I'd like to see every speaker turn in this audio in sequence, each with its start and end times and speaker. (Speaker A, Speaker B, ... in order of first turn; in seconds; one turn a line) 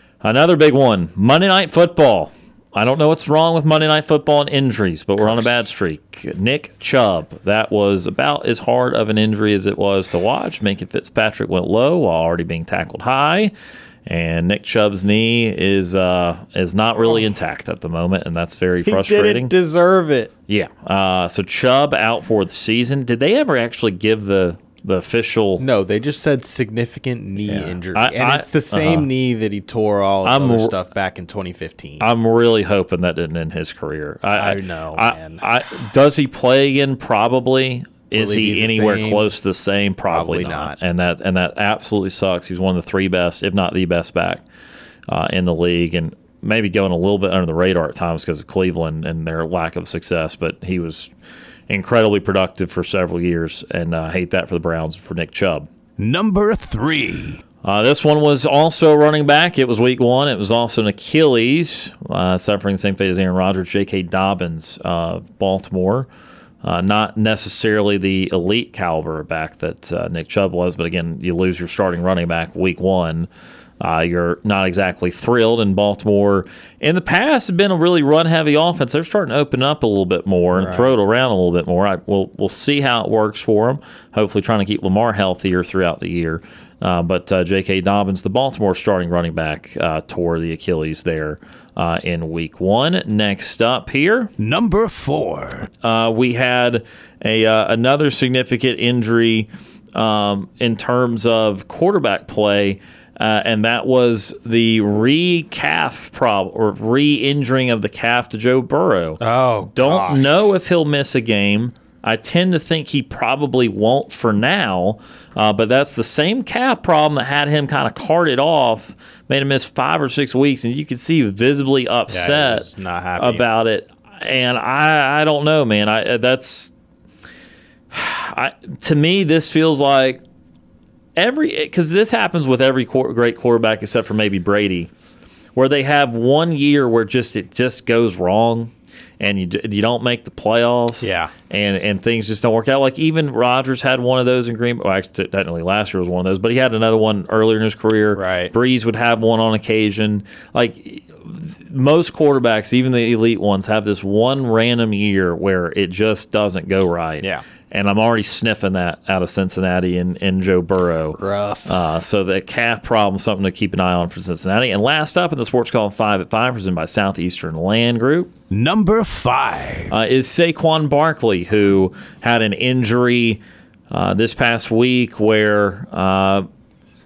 Speaker A: 0.2-13.5
Speaker B: 5.2-5.6
Speaker A: 14.1-19.5
Speaker B: 17.0-17.2
Speaker B: 18.8-20.3
Speaker A: 20.5-25.6
Speaker B: 25.6-32.0
Speaker A: 27.4-29.1
Speaker A: 30.2-30.7
Speaker A: 32.0-44.4
Speaker B: 34.4-35.4
Speaker B: 38.1-39.3
Speaker B: 40.1-40.8
Speaker A: 45.1-51.1
Speaker A: 51.7-55.7
Speaker C: 56.0-57.4
Speaker A: 57.6-66.1
Speaker A: 66.6-73.3
Speaker A: 73.8-94.3
Speaker B: 80.5-80.9
Speaker C: 94.4-95.7
Speaker A: 95.8-109.2
Speaker B: 109.2-110.3
Speaker A: 109.7-126.7
Speaker B: 122.1-123.4
Speaker A: 127.9-130.2
Speaker A: 131.2-134.9
Speaker A: 135.6-168.3
Speaker B: 141.0-141.3
Speaker B: 148.1-148.5
Speaker B: 161.2-161.8
Speaker C: 168.5-169.9
Speaker A: 169.9-176.4